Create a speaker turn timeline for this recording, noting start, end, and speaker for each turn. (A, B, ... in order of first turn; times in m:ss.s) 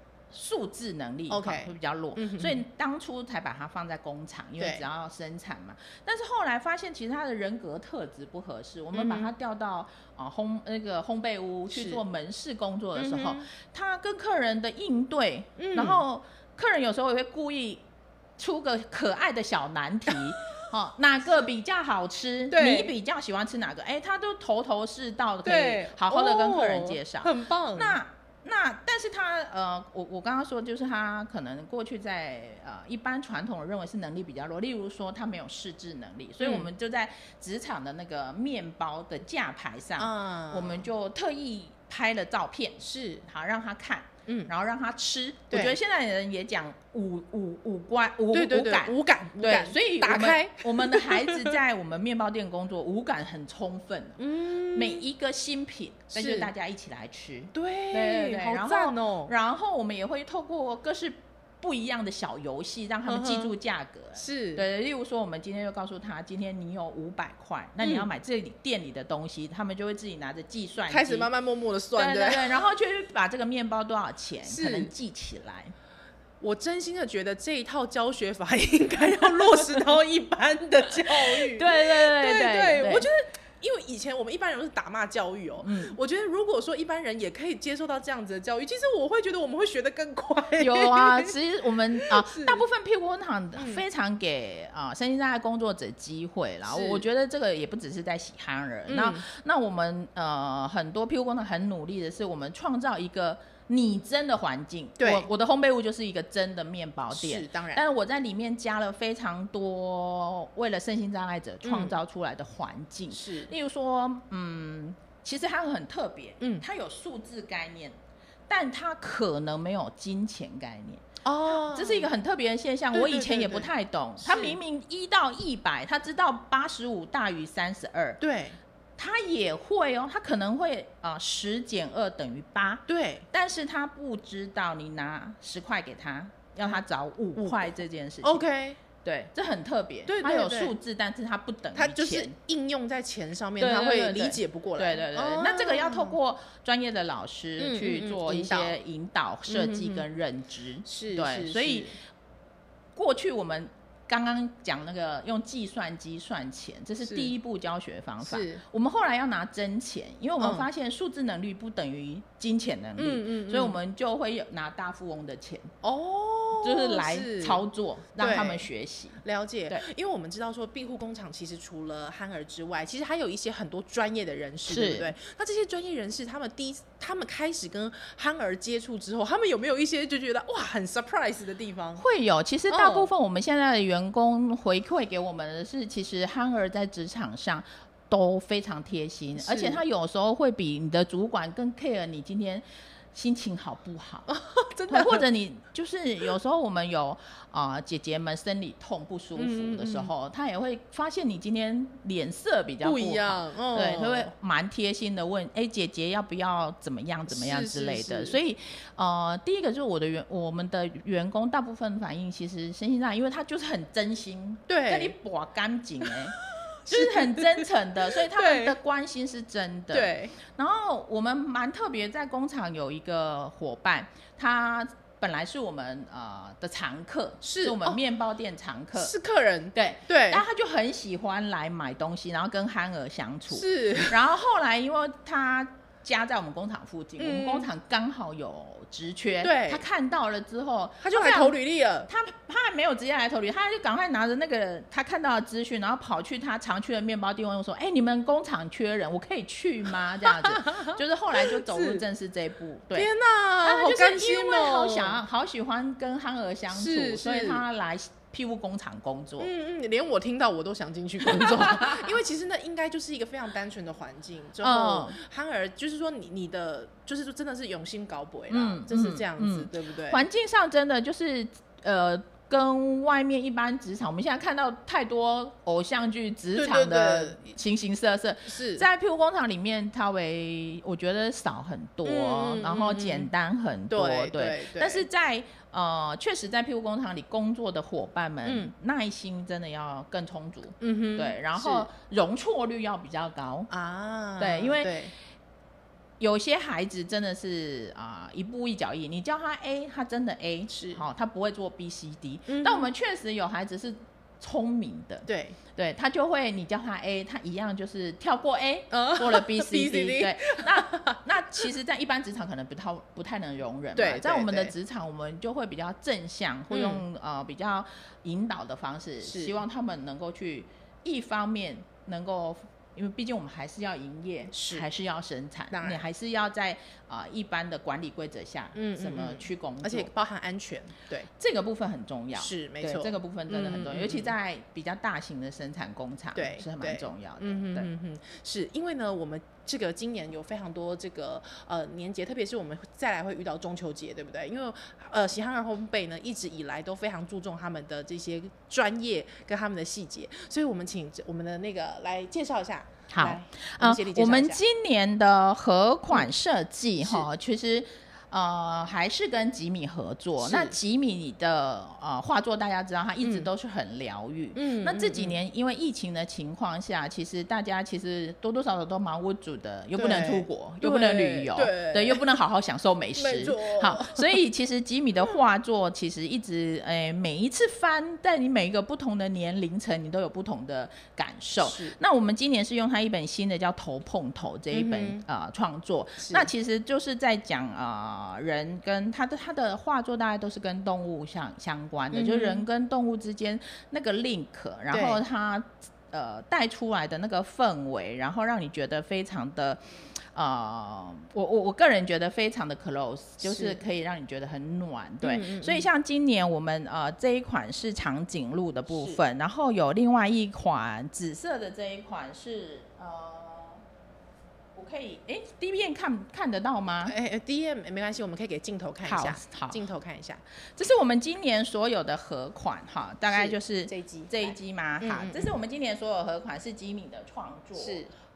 0:00.3-0:17.8 A
0:01.3-0:02.6 B
0:04.6-0:04.8 B
0:08.9-0:09.3 B
0:11.7-0:12.0 B
0:13.0-0:13.5 B
0:15.6-0:16.0 B
0:18.4-1:11.3 A
0:22.5-0:22.9 B
0:25.4-0:28.0 B
0:36.4-0:36.7 B
0:40.0-0:40.9 B
0:42.8-0:43.2 B
0:44.3-0:44.5 B
0:45.5-0:45.8 B
0:48.3-0:51.6 B
0:54.2-0:55.0 B
0:56.1-0:56.5 B
0:57.5-0:59.3 B
1:03.1-1:03.5 B
1:04.2-1:04.6 B
1:07.8-1:08.1 B
1:10.9-1:12.6 B
1:12.0-1:15.7 A
1:14.5-1:14.9 B
1:16.4-1:31.3 B
1:21.1-1:23.1 A
1:25.6-1:26.0 A
1:30.6-1:58.0 A
1:32.0-1:32.7 B
1:33.6-1:33.8 B
1:36.6-1:37.0 B
1:38.9-1:39.2 B
1:45.0-1:45.3 B
1:47.1-1:47.8 B
1:51.6-1:52.0 B
1:53.1-1:53.5 B
1:58.5-2:08.2 A
2:01.2-2:02.1 B
2:02.9-2:04.6 B
2:08.2-2:08.6 B
2:09.0-2:18.4 A
2:12.9-2:13.3 B
2:17.4-2:18.8 B
2:19.0-2:22.4 A
2:20.1-2:20.8 B
2:21.7-2:26.2 B
2:23.6-2:31.9 A
2:27.6-2:28.8 B
2:29.5-2:30.1 B
2:30.8-2:32.0 B
2:33.0-2:45.7 A
2:37.0-2:37.3 B
2:38.2-2:38.6 B
2:40.4-2:40.7 B
2:43.0-2:43.8 B
2:45.8-2:47.6 B
2:46.6-2:49.8 A
2:48.2-2:48.7 B
2:49.2-3:02.0 B
2:54.7-2:55.1 A
3:02.0-3:14.3 A
3:02.7-3:03.1 B
3:09.4-3:09.8 B
3:14.3-3:15.2 B
3:14.9-3:36.4 A
3:19.4-3:20.1 B
3:22.8-3:24.3 B
3:27.3-3:28.4 B
3:34.7-3:35.2 B
3:36.8-3:38.8 B
3:36.9-3:49.1 A
3:39.9-3:40.3 B
3:47.4-3:48.0 B
3:48.9-3:50.4 B
3:49.8-4:01.6 A
3:53.5-3:54.2 B
3:57.2-3:57.7 B
3:59.4-3:59.8 B
4:01.0-4:02.1 B
4:02.1-4:13.1 A
4:10.4-4:12.0 B
4:12.9-4:15.2 B
4:13.6-4:19.5 A
4:16.7-4:17.6 B
4:19.4-4:30.2 B
4:21.3-4:21.9 A
4:24.6-4:25.2 A
4:28.5-4:53.7 A
4:36.6-4:37.4 B
4:38.5-4:38.8 B
4:42.0-4:43.3 B
4:43.9-4:45.1 B
4:48.4-4:48.7 B
4:50.8-4:51.9 B
4:53.7-4:55.1 B
4:54.4-4:54.9 A
4:56.2-5:30.1 A
5:00.7-5:01.0 B
5:02.5-5:02.9 B
5:05.3-5:05.6 B
5:08.9-5:11.7 B
5:14.0-5:14.7 B
5:16.7-5:17.0 B
5:19.2-5:19.6 B
5:24.5-5:24.9 B
5:25.7-5:26.0 B
5:28.8-5:31.3 B
5:31.4-5:37.9 A
5:32.4-5:34.3 B
5:36.4-5:54.6 B
5:53.1-6:39.8 A
5:57.0-5:57.3 B
6:00.4-6:00.8 B
6:03.2-6:03.5 B
6:04.6-6:05.4 B
6:10.0-6:12.2 B
6:13.2-6:14.4 B
6:21.6-6:22.0 B
6:24.7-6:25.2 B
6:26.2-6:26.5 B
6:32.1-6:32.6 B
6:34.9-6:35.2 B
6:40.4-6:53.8 A
6:43.4-6:43.8 B
6:45.2-6:45.9 B
6:48.9-6:49.2 B
6:54.8-6:57.1 A
6:57.0-7:00.4 B
6:59.1-6:59.8 A
7:00.8-7:08.1 A
7:03.3-7:05.6 B
7:07.8-7:08.1 B